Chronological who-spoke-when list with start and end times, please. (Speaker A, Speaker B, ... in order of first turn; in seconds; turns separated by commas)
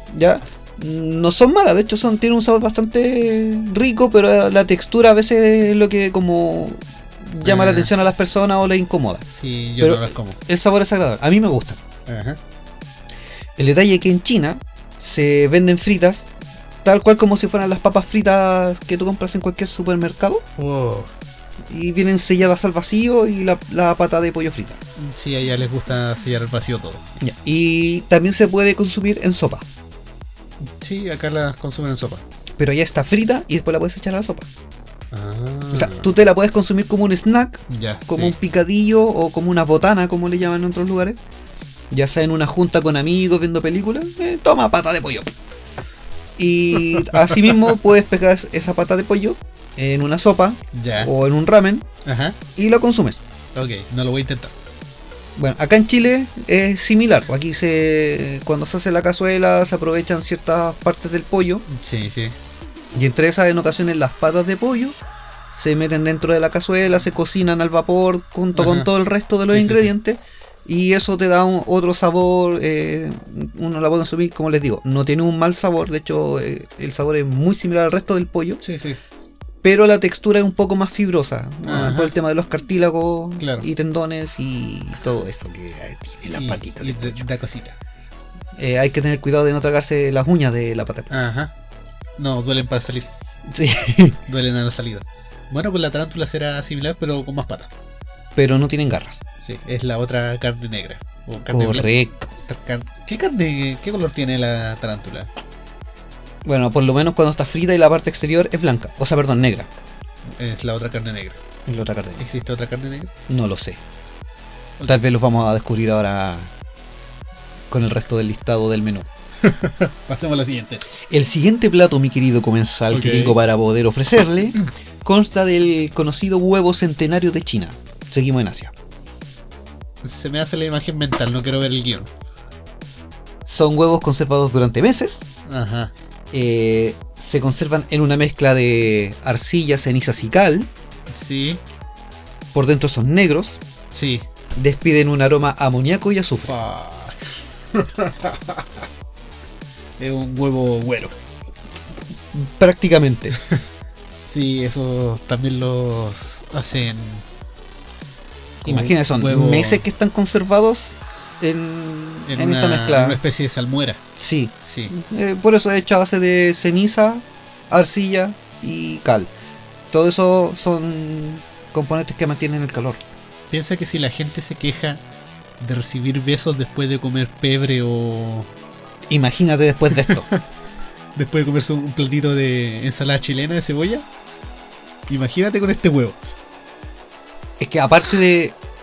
Speaker A: 0.1-9.2, Speaker B: 7.4-7.9, Speaker B: 9.3-10.4, Speaker A: 9.8-11.8, Speaker B: 12.1-12.4, Speaker A: 13.6-16.3, Speaker A: 16.8-20.4, Speaker B: 20.6-21.1, Speaker A: 21.7-24.8, Speaker B: 24.9-27.0, Speaker A: 27.2-29.6, Speaker B: 30.6-32.2, Speaker A: 32.6-34.5, Speaker B: 35.1-36.1, Speaker A: 35.7-41.2, Speaker B: 37.7-38.4, Speaker A: 41.9-45.3, Speaker A: 46.4-51.9, Speaker B: 50.7-51.1, Speaker B: 52.0-52.4, Speaker A: 52.5-53.2, Speaker B: 53.5-54.5, Speaker A: 55.4-61.6, Speaker B: 61.7-62.4, Speaker A: 62.9-65.0, Speaker A: 65.5-78.6, Speaker B: 68.5-68.9, Speaker B: 69.5-69.9, Speaker B: 78.6-79.0, Speaker A: 79.6-87.3, Speaker B: 81.6-82.1, Speaker B: 83.4-83.7, Speaker B: 86.3-87.8, Speaker A: 88.6-91.2, Speaker B: 91.1-91.5, Speaker B: 92.2-93.1, Speaker A: 93.5-94.2, Speaker B: 94.2-97.7, Speaker A: 98.3-99.2, Speaker B: 99.4-101.9, Speaker A: 101.4-102.3, Speaker B: 102.4-105.3, Speaker A: 106.4-109.7, Speaker B: 110.3-111.4, Speaker A: 111.7-112.2, Speaker B: 112.2-113.1, Speaker A: 113.3-113.8, Speaker A: 114.8-116.5, Speaker A: 117.7-119.1, Speaker B: 119.4-120.8, Speaker A: 121.1-128.7, Speaker B: 122.9-123.4, Speaker B: 130.0-132.1, Speaker A: 133.4-135.3, Speaker B: 135.4-135.9, Speaker A: 136.3-140.7, Speaker B: 141.1-141.6, Speaker A: 142.5-143.6, Speaker B: 143.9-144.3, Speaker A: 144.5-146.5, Speaker B: 146.4-148.8, Speaker B: 150.0-151.1, Speaker A: 152.3-153.4, Speaker B: 154.3-157.2, Speaker B: 158.6-159.9, Speaker A: 158.6-163.2, Speaker B: 162.3-164.0, Speaker A: 164.2-169.3, Speaker B: 164.6-164.9, Speaker A: 169.9-173.0, Speaker B: 173.5-175.0, Speaker B: 175.6-178.5, Speaker A: 179.1-180.3, Speaker B: 180.0-180.4, Speaker B: 181.1-184.1, Speaker B: 185.1-186.2, Speaker A: 187.6-188.6